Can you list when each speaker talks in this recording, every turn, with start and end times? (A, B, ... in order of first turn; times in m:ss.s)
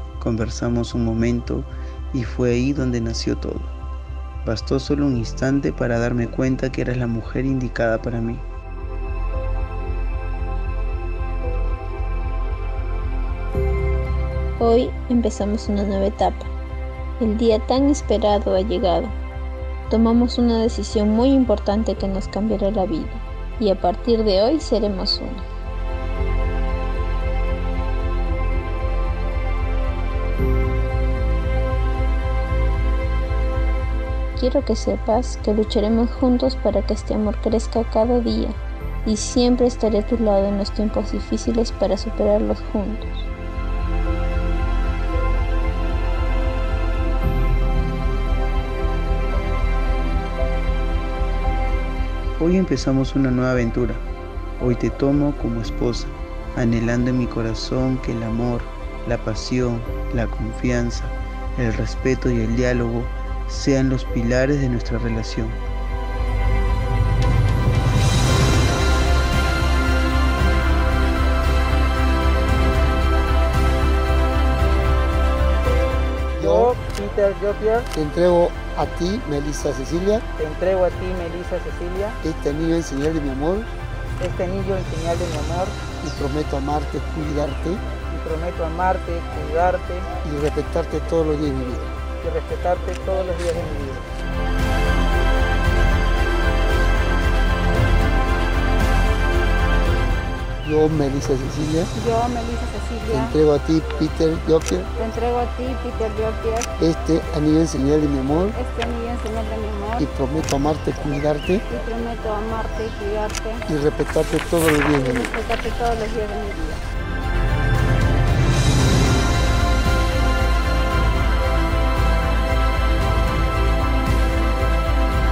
0:00.2-0:03.8 A
0:04.4-0:08.4 A
0:14.6-0:16.5 B
0:17.2-0:19.2 B
0:19.9-0:25.4 B
0:34.4-0:43.3 B
0:52.4-0:54.0 A
0:54.6-1:05.6 A
1:16.4-1:16.7 C
1:16.4-1:17.9 D
1:17.9-1:20.2 C
1:20.4-1:22.2 D
1:22.2-1:23.7 C
1:24.2-1:25.8 D
1:26.0-1:27.8 C
1:28.0-1:30.1 D
1:30.2-1:31.9 C
1:32.1-1:34.1 D
1:40.6-1:41.9 C
1:41.9-1:43.4 E
1:43.1-1:44.9 C
1:45.0-1:46.7 E
1:46.8-1:48.6 C
1:48.5-1:50.1 E
1:50.0-1:51.6 C
1:51.7-1:53.6 E
1:53.7-1:55.4 C
1:54.9-1:56.8 E